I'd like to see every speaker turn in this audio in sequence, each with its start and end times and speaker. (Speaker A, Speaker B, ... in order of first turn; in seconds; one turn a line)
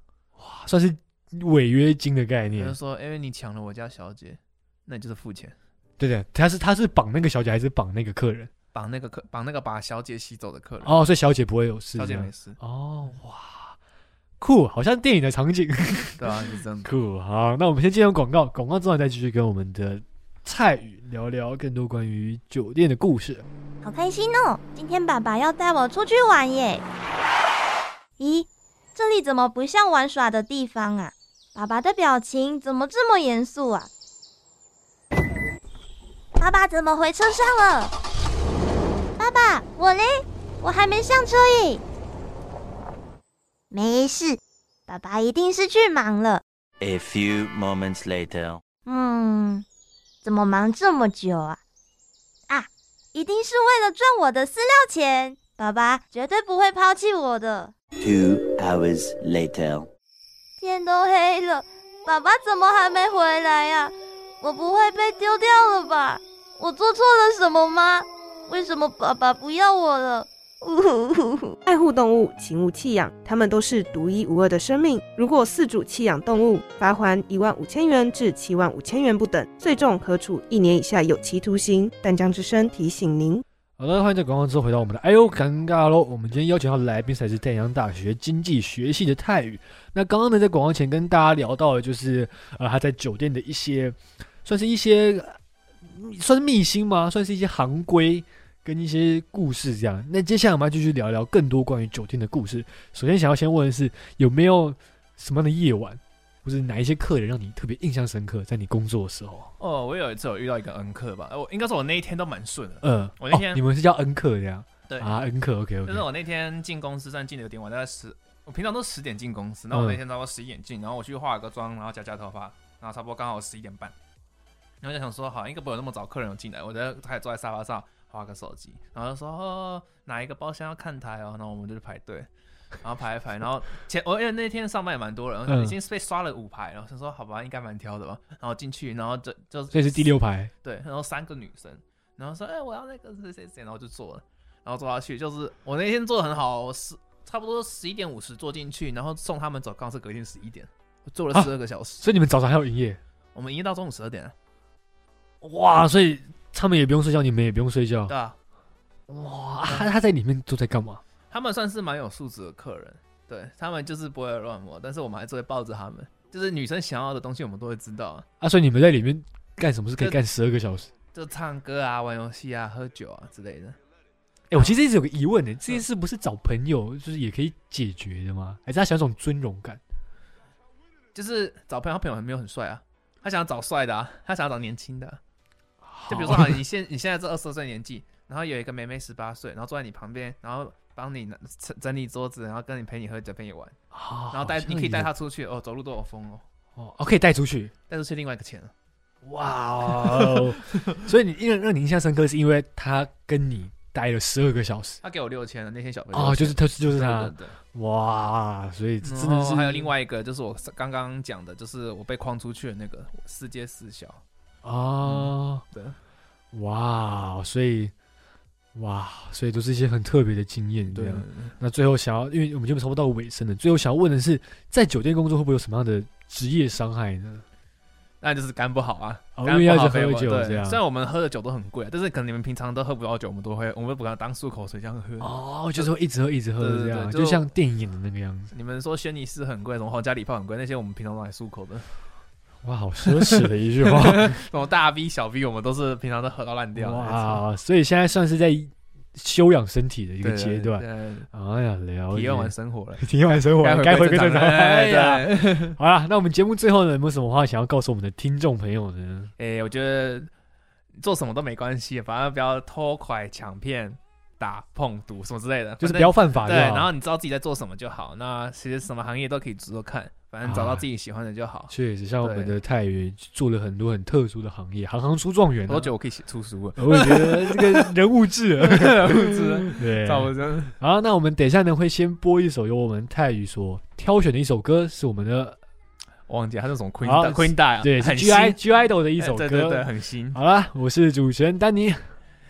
Speaker A: 0.3-2.8
Speaker B: 2.6-5.5
Speaker A: 6.0-8.5
Speaker B: 8.7-10.9
Speaker A: 10.8-13.8
Speaker B: 11.9-12.6
Speaker A: 14.4-23.4
Speaker B: 16.2-16.9
Speaker C: 23.8-26.8
Speaker C: 28.2-33.9
Speaker C: 36.4-37.9
Speaker C: 39.2-41.8
Speaker C: 43.7-46.4
Speaker D: 46.8-48.6
Speaker C: 48.8-49.6
Speaker C: 50.2-51.6
Speaker C: 52.5-57.7
Speaker D: 58.0-59.9
Speaker C: 60.6-71.5
Speaker E: 71.6-83.4
Speaker A: 83.8-109.5
Speaker B: 109.6-113.6
Speaker A: 112.8-116.0
Speaker B: 115.8-123.9
Speaker A: 119.7-120.0
Speaker B: 124.8-132.3
Speaker B: 132.8-152.0
Speaker A: 135.5-135.8
Speaker A: 139.7-140.5
Speaker A: 151.3-153.0
Speaker B: 153.3-154.3
Speaker A: 155.4-158.1
Speaker B: 158.1-158.4
Speaker A: 159.1-161.0
Speaker B: 161.3-168.2
Speaker A: 168.4-170.9
Speaker B: 171.1-173.8
Speaker A: 174.5-179.8
Speaker B: 181.1-185.2
Speaker A: 185.8-186.6
Speaker B: 186.1-193.7
Speaker A: 193.9-195.1
Speaker B: 194.3-196.4
Speaker A: 196.8-197.7
Speaker B: 197.9-198.7
Speaker A: 199.2-205.0
Speaker B: 199.9-201.0
Speaker B: 205.0-207.6
Speaker A: 206.1-209.9
Speaker B: 209.0-214.2
Speaker A: 214.6-215.6
Speaker B: 215.0-216.0
Speaker A: 216.5-217.9
Speaker A: 218.7-227.4
Speaker B: 220.9-221.5
Speaker B: 228.2-235.9
Speaker A: 229.3-230.8
Speaker A: 235.2-238.5
Speaker B: 236.6-237.5
Speaker B: 238.5-241.9
Speaker A: 242.6-244.4
Speaker B: 243.1-247.4
Speaker A: 246.7-259.3
Speaker B: 250.2-251.3
Speaker B: 252.1-255.8
Speaker B: 259.4-260.3
Speaker B: 261.0-272.5
Speaker A: 265.8-266.9
Speaker A: 270.4-270.8
Speaker A: 271.7-275.9
Speaker B: 275.7-277.9
Speaker A: 276.8-285.6
Speaker B: 278.6-280.7
Speaker B: 286.3-288.6
Speaker A: 287.0-292.0
Speaker B: 289.2-290.4